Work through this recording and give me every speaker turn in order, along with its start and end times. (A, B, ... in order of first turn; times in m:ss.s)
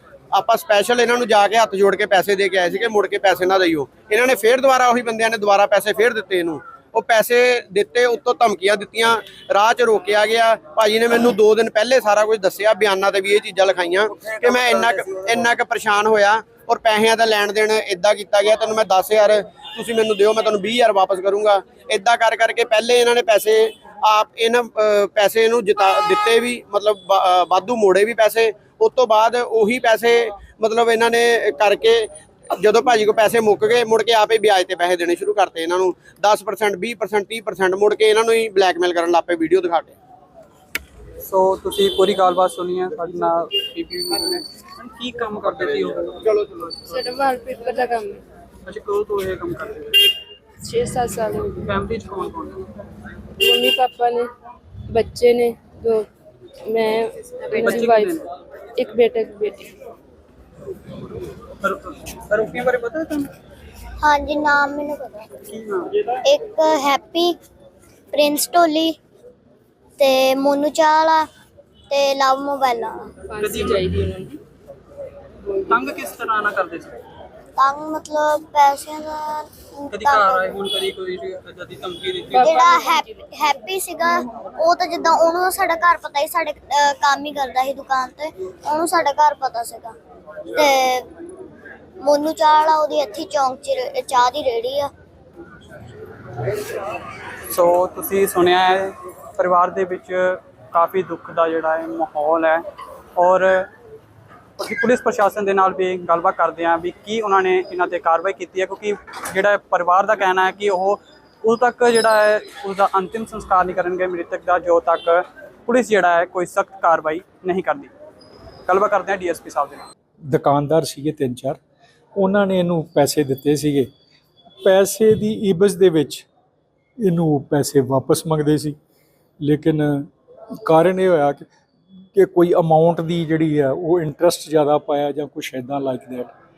0:00.3-0:40.0 A
0:41.2-0:47.0 B
0:46.9-0:48.2 C
0:48.6-0:50.1 B
0:50.6-0:51.6 C
0:51.6-0:52.6 B
0:53.4-0:54.3 C
0:54.9-0:56.1 C
0:56.6-0:58.2 C
0:57.5-0:58.3 B
0:58.8-0:59.7 C
1:01.6-1:03.3 B
1:04.0-1:05.3 D
1:05.5-1:06.0 B
1:06.2-1:07.3 D
1:08.1-1:09.0 D
1:10.0-1:11.2 D
1:11.9-1:13.1 D
1:13.3-1:14.3 C
1:13.4-1:14.4 B
1:15.7-1:17.0 B
1:17.6-1:20.5 D
1:19.9-1:22.6 B
1:22.3-1:23.0 C
1:22.4-1:29.9 D
1:30.5-1:31.0 D
1:32.0-1:34.9 D
1:37.5-1:42.6 B
1:43.2-1:43.7 B
1:44.6-1:57.9 B
1:58.7-1:59.9 B
2:00.3-2:01.6 E
2:02.2-2:03.9 E
2:04.6-2:06.2 E
2:07.0-2:08.8 E
2:09.4-2:10.1 E
2:10.6-2:11.5 E
2:12.1-2:16.3 E